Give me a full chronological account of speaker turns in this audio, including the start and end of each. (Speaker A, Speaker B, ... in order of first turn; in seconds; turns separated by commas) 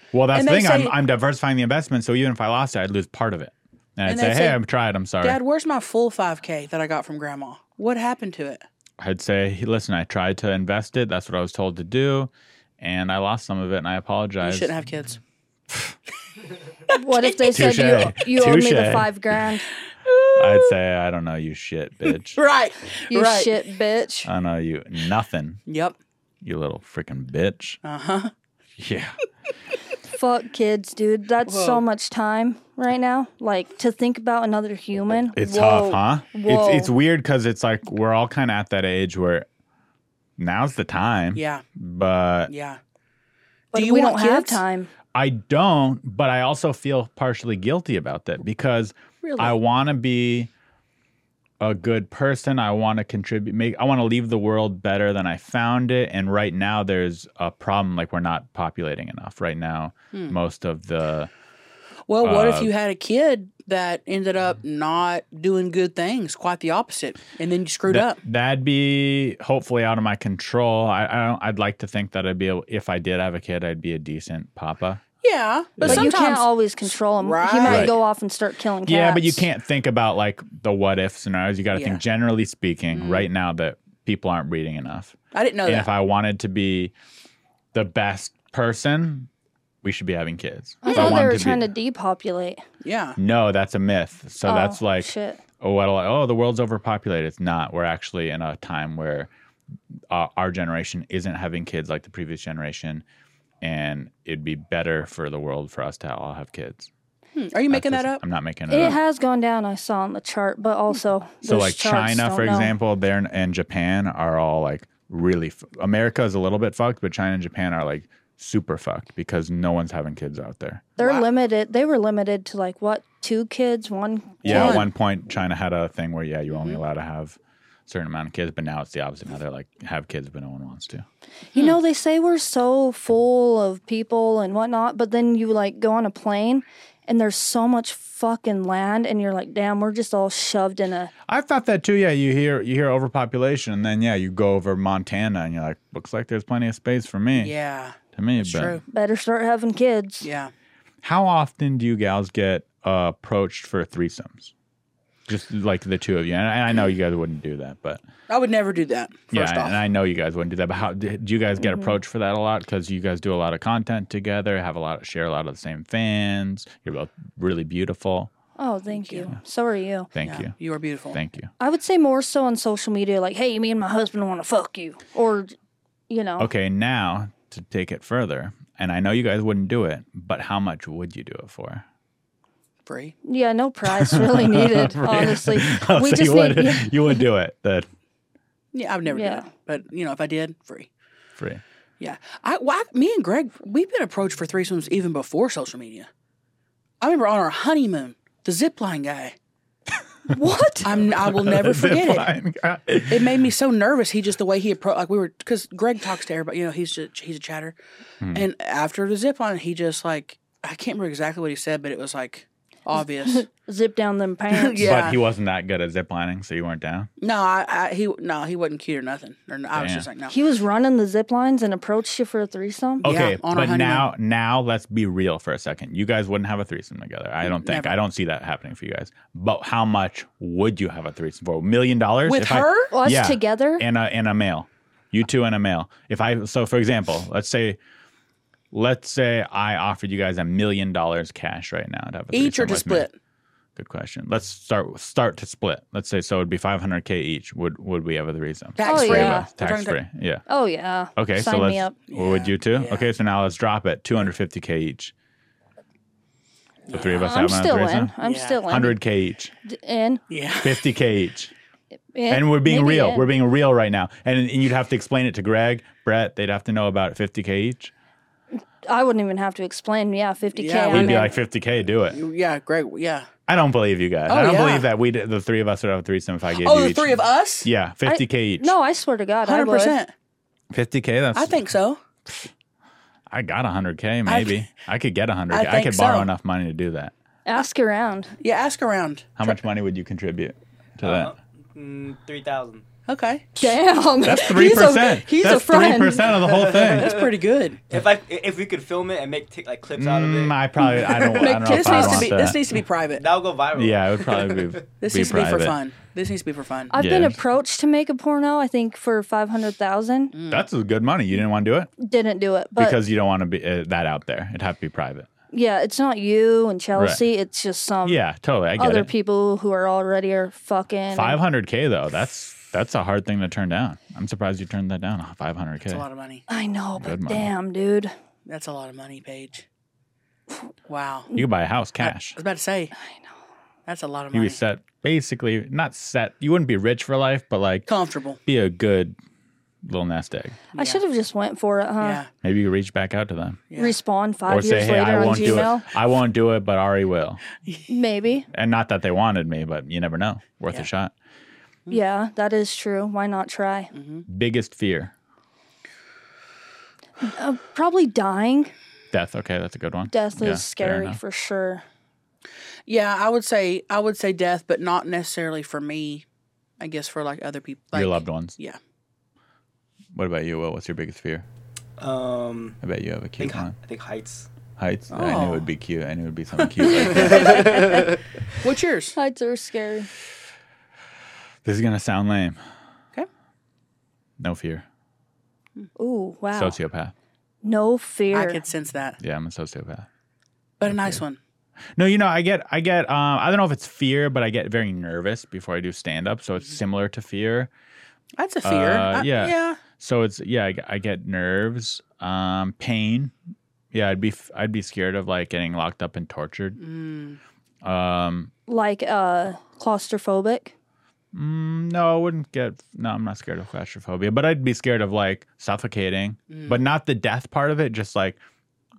Speaker A: 0.1-5.4, Speaker B: 0.3-0.9, Speaker B: 4.0-4.6, Speaker B: 5.2-8.6, Speaker A: 9.0-14.7, Speaker B: 14.4-15.2, Speaker A: 15.7-15.9, Speaker C: 16.9-19.6, Speaker B: 16.9-17.4, Speaker A: 17.4-19.4, Speaker B: 20.0-20.7, Speaker A: 20.3-22.4, Speaker B: 22.3-23.6, Speaker C: 23.1-24.3, Speaker A: 24.2-25.6, Speaker B: 25.7-25.9, Speaker A: 26.4-27.8, Speaker B: 27.8-28.3, Speaker A: 28.8-29.1, Speaker C: 30.1-36.9, Speaker B: 31.4-31.8, Speaker A: 35.3-39.5, Speaker A: 40.4-42.5, Speaker B: 41.3-41.6, Speaker B: 42.5-42.8, Speaker B: 43.7-44.6, Speaker C: 43.7-44.9, Speaker A: 45.1-50.5, Speaker B: 49.2-49.6, Speaker A: 51.6-61.3, Speaker B: 62.1-68.2, Speaker A: 62.2-62.7, Speaker A: 67.9-75.0, Speaker B: 75.2-77.9, Speaker A: 75.8-76.2, Speaker C: 75.8-79.5, Speaker A: 77.6-77.9, Speaker A: 78.8-86.9, Speaker B: 81.7-82.0, Speaker B: 82.9-83.3, Speaker B: 85.3-85.9, Speaker A: 87.7-89.3, Speaker A: 89.8-91.7, Speaker C: 90.8-92.6, Speaker B: 90.9-91.2, Speaker B: 92.8-93.2, Speaker A: 93.2-99.3, Speaker C: 94.4-95.4, Speaker A: 100.1-103.0, Speaker A: 103.6-106.9, Speaker B: 107.3-108.2, Speaker A: 107.7-109.0, Speaker C: 108.7-112.7, Speaker A: 111.4-120.9, Speaker B: 121.0-121.3, Speaker C: 121.0-124.8, Speaker A: 124.4-131.1, Speaker B: 124.5-124.9, Speaker B: 126.5-126.8, Speaker C: 131.5-141.1, Speaker A: 141.3-147.5, Speaker B: 147.3-148.8, Speaker A: 148.1-148.8, Speaker C: 148.9-150.3, Speaker B: 150.2-150.5, Speaker A: 151.0-154.5, Speaker A: 155.3-158.0, Speaker B: 158.3-159.8, Speaker A: 159.3-168.3, Speaker C: 168.6-170.1, Speaker B: 168.9-169.3, Speaker A: 170.1-170.5, Speaker B: 170.2-171.2, Speaker A: 171.1-171.5, Speaker C: 171.6-175.5, Speaker C: 176.1-176.5, Speaker A: 176.4-181.8, Speaker B: 182.8-183.1, Speaker C: 183.2-187.2, Speaker A: 183.9-187.9, Speaker B: 188.7-190.9, Speaker C: 189.1-189.5, Speaker A: 191.4-191.6, Speaker B: 192.0-196.1, Speaker B: 197.0-199.3, Speaker C: 200.3-200.9, Speaker B: 200.8-202.3, Speaker A: 200.9-203.5, Speaker B: 203.1-207.8, Speaker A: 208.2-208.5, Speaker B: 208.3-213.5, Speaker C: 212.9-214.8, Speaker B: 214.5-215.2, Speaker A: 214.8-217.1, Speaker B: 217.2-220.4, Speaker A: 219.7-220.1, Speaker C: 220.3-223.0, Speaker A: 223.0-237.8, Speaker B: 223.0-224.1, Speaker B: 227.4-227.9, Speaker B: 232.2-232.9, Speaker C: 232.9-233.8, Speaker A: 238.7-243.1, Speaker B: 242.3-243.2, Speaker A: 243.8-250.4, Speaker B: 248.8-250.0, Speaker C: 248.8-249.5, Speaker C: 250.5-252.0, Speaker A: 251.2-255.1, Speaker B: 252.1-253.1, Speaker B: 256.9-257.2, Speaker A: 256.9-258.1, Speaker C: 257.1-259.0, Speaker B: 258.2-258.6, Speaker A: 258.6-259.5, Speaker C: 259.6-260.2, Speaker B: 260.3-260.8, Speaker A: 260.6-261.5, Speaker C: 262.1-263.3, Speaker A: 262.3-267.9, Speaker C: 268.9-271.3, Speaker B: 270.6-271.3, Speaker A: 270.9-272.2, Speaker B: 272.1-273.3, Speaker A: 273.5-278.7, Speaker B: 274.3-274.9, Speaker B: 276.5-277.7, Speaker C: 278.0-280.0, Speaker B: 279.4-280.1, Speaker A: 280.7-281.7, Speaker B: 281.3-282.0, Speaker A: 283.3-287.1, Speaker B: 284.3-284.6, Speaker B: 285.5-286.3, Speaker C: 287.4-288.3, Speaker B: 288.4-289.6, Speaker A: 289.4-291.3, Speaker D: 291.0-292.8, Speaker B: 293.1-293.6, Speaker C: 293.6-296.2, Speaker A: 294.2-297.2, Speaker B: 295.5-295.9, Speaker D: 296.4-297.3, Speaker B: 296.6-297.8, Speaker D: 297.9-301.6, Speaker A: 299.9-302.6, Speaker B: 300.8-303.2, Speaker D: 303.1-304.8, Speaker A: 303.7-305.8, Speaker B: 305.0-306.9, Speaker C: 306.9-310.3, Speaker A: 306.9-307.4, Speaker B: 310.3-310.6, Speaker A: 310.5-311.9, Speaker C: 312.0-313.0, Speaker A: 312.8-315.3, Speaker C: 315.5-318.2, Speaker A: 316.9-317.2, Speaker A: 318.0-319.1, Speaker C: 318.8-321.4, Speaker A: 321.1-326.0, Speaker B: 325.9-326.4, Speaker C: 326.5-328.1, Speaker A: 327.0-327.5, Speaker B: 328.4-329.6, Speaker B: 330.9-331.3, Speaker A: 331.3-332.4, Speaker B: 332.0-332.9, Speaker C: 332.9-333.3, Speaker B: 333.9-334.6, Speaker A: 334.3-337.9, Speaker B: 337.9-338.4, Speaker A: 338.4-339.1, Speaker A: 339.8-340.6, Speaker B: 340.7-341.0, Speaker C: 340.7-342.2, Speaker B: 342.0-342.3, Speaker A: 342.4-343.6, Speaker B: 343.7-344.0, Speaker C: 343.8-345.9, Speaker A: 344.5-347.4, Speaker B: 345.2-345.7, Speaker C: 347.9-348.5, Speaker A: 348.5-351.1, Speaker C: 351.9-353.9, Speaker B: 353.9-354.2, Speaker A: 354.3-355.1, Speaker C: 357.2-358.7, Speaker A: 359.1-361.2, Speaker C: 360.1-361.8, Speaker B: 362.9-366.2, Speaker B: 366.8-368.8, Speaker A: 367.9-368.6, Speaker A: 370.1-371.4, Speaker D: 372.0-372.8, Speaker A: 372.8-373.8, Speaker D: 373.4-374.5, Speaker A: 374.8-377.8, Speaker B: 375.1-375.6, Speaker B: 376.8-377.6, Speaker D: 377.1-378.2, Speaker B: 378.6-379.1, Speaker C: 379.1-380.1, Speaker A: 381.6-382.6, Speaker A: 384.4-384.8, Speaker C: 386.0-386.8, Speaker A: 386.5-387.1, Speaker C: 387.6-388.6, Speaker B: 388.3-389.2, Speaker A: 389.2-390.1, Speaker B: 390.8-391.4, Speaker A: 390.8-391.2, Speaker A: 391.9-397.7, Speaker B: 398.4-399.8, Speaker A: 398.6-403.3, Speaker A: 403.9-406.8, Speaker B: 406.8-407.4, Speaker A: 407.8-408.5, Speaker C: 408.7-410.7, Speaker A: 411.3-418.4, Speaker B: 416.5-416.8